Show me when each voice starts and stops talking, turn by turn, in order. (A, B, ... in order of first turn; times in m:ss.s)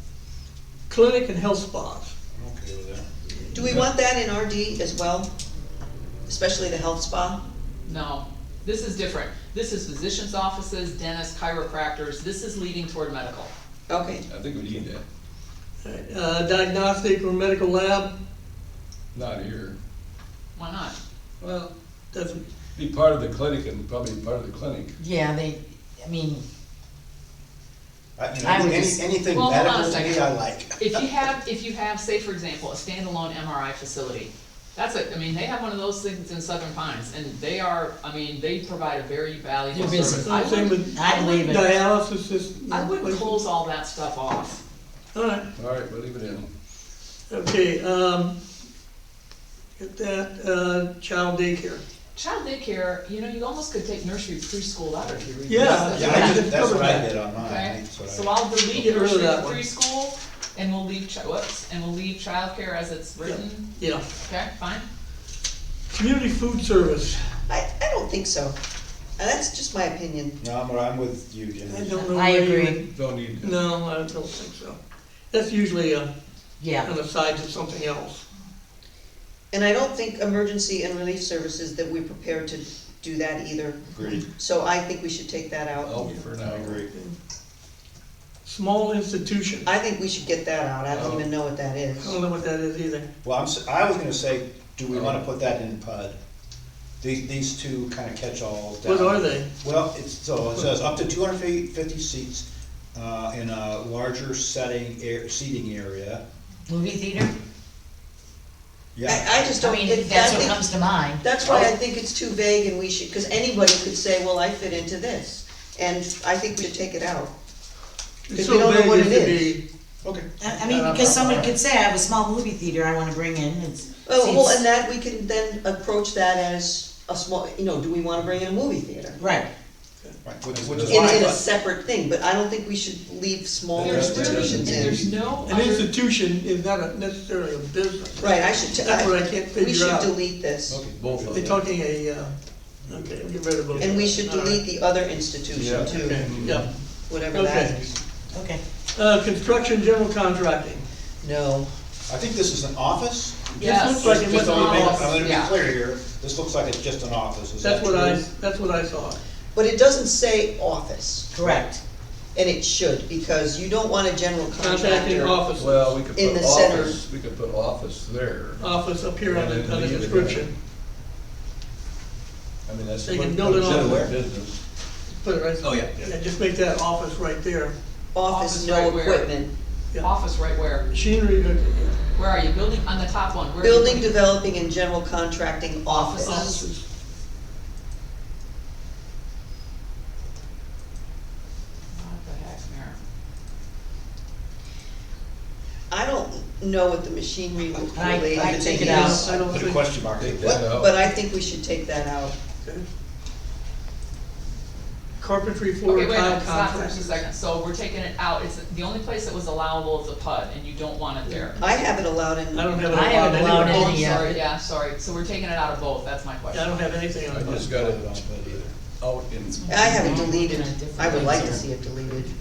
0:00.9-0:02.1 A
0:02.3-0:03.1 B
0:03.5-0:05.3 C
0:06.3-0:07.4 C
0:07.9-0:13.5 D
0:13.9-0:14.3 C
0:14.3-0:15.0 E
0:15.8-0:18.1 A
0:19.1-0:19.8 E
0:20.6-0:21.0 D
0:21.4-0:22.4 A
0:22.8-0:25.0 E
0:25.0-0:26.4 F
0:28.2-0:31.0 B
0:28.4-0:29.0 F
0:29.3-0:40.9 D
0:39.7-0:40.4 F
0:40.2-0:43.4 A
0:40.9-0:41.7 F
0:42.7-0:44.6 D
0:45.1-0:45.5 A
0:45.6-0:46.5 E
0:47.3-0:48.4 A
0:49.8-0:51.8 A
0:52.2-0:56.4 D
0:55.0-0:56.2 E
0:55.5-0:57.1 A
0:55.9-0:58.4 B
0:57.4-1:04.9 D
0:58.7-0:59.6 A
1:03.2-1:04.1 A
1:05.9-1:07.2 A
1:07.5-1:08.6 C
1:09.2-1:10.4 C
1:10.4-1:12.1 B
1:11.7-1:14.8 A
1:12.0-1:12.9 F
1:12.9-1:13.6 E
1:15.3-1:16.1 A
1:16.6-1:16.9 F
1:16.8-1:18.2 A
1:19.5-1:26.1 C
1:23.9-1:24.2 B
1:25.7-1:26.8 E
1:26.4-1:26.9 B
1:26.9-1:27.2 A
1:28.4-1:29.7 A
1:29.7-1:32.2 C
1:30.9-1:31.3 E
1:32.0-1:33.1 A
1:33.2-1:36.2 B
1:34.9-1:35.2 E
1:37.0-1:46.2 B
1:38.8-1:39.5 A
1:46.7-1:47.3 F
1:49.0-1:49.5 B
1:49.0-1:50.6 C
1:49.5-1:51.7 F
1:51.2-1:57.3 C
1:58.3-1:59.6 A
1:58.3-1:59.6 C
2:00.0-2:00.3 B
2:00.4-2:04.6 F
2:00.6-2:01.5 A
2:04.0-2:09.3 C
2:09.2-2:09.5 F
2:10.2-2:11.4 B
2:10.5-2:11.4 E
2:10.9-2:15.1 C
2:13.8-2:15.3 E
2:13.8-2:15.9 D
2:15.4-2:20.2 A
2:18.2-2:20.8 C
2:20.7-2:21.6 E
2:21.0-2:21.6 B
2:21.3-2:22.4 A
2:22.9-2:24.7 A
2:23.8-2:26.4 C
2:25.5-2:26.7 E
2:25.7-2:26.6 B
2:25.8-2:26.7 A
2:27.1-2:28.0 C
2:27.3-2:27.9 A
2:28.3-2:28.6 F
2:28.9-2:30.8 A
2:31.2-2:31.7 C
2:32.1-2:38.2 B
2:33.6-2:35.3 A
2:33.6-2:35.6 D
2:37.6-2:39.2 A
2:39.5-2:41.3 C
2:41.3-2:41.8 F
2:42.4-2:45.4 C
2:44.6-2:46.0 A
2:45.5-2:48.7 E
2:46.1-2:47.0 C
2:48.6-2:50.5 A
2:49.2-2:50.5 E
2:52.7-2:54.6 E
2:53.0-2:54.1 A
2:53.6-2:54.1 B
2:55.2-2:57.8 A
2:55.6-2:56.0 E
2:58.1-2:59.5 C
2:58.2-2:59.3 D
3:00.0-3:00.9 D
3:00.9-3:02.0 A
3:02.2-3:04.2 D
3:03.6-3:06.7 C
3:05.9-3:06.6 D
3:06.1-3:06.8 A
3:11.9-3:13.0 D
3:15.9-3:19.3 C
3:18.0-3:19.2 F
3:18.3-3:20.6 B
3:18.9-3:19.9 A
3:20.2-3:21.0 E
3:20.4-3:22.4 C
3:25.2-3:27.2 A
3:25.9-3:31.7 D
3:31.2-3:31.6 A
3:31.6-3:34.4 C
3:32.5-3:34.0 A
3:32.9-3:34.4 F
3:33.4-3:36.9 D
3:36.5-3:37.7 A
3:37.3-3:40.3 E
3:37.4-3:38.7 B
3:39.5-3:40.6 D
3:39.7-3:42.3 C
3:39.9-3:41.6 F
3:41.1-3:41.6 E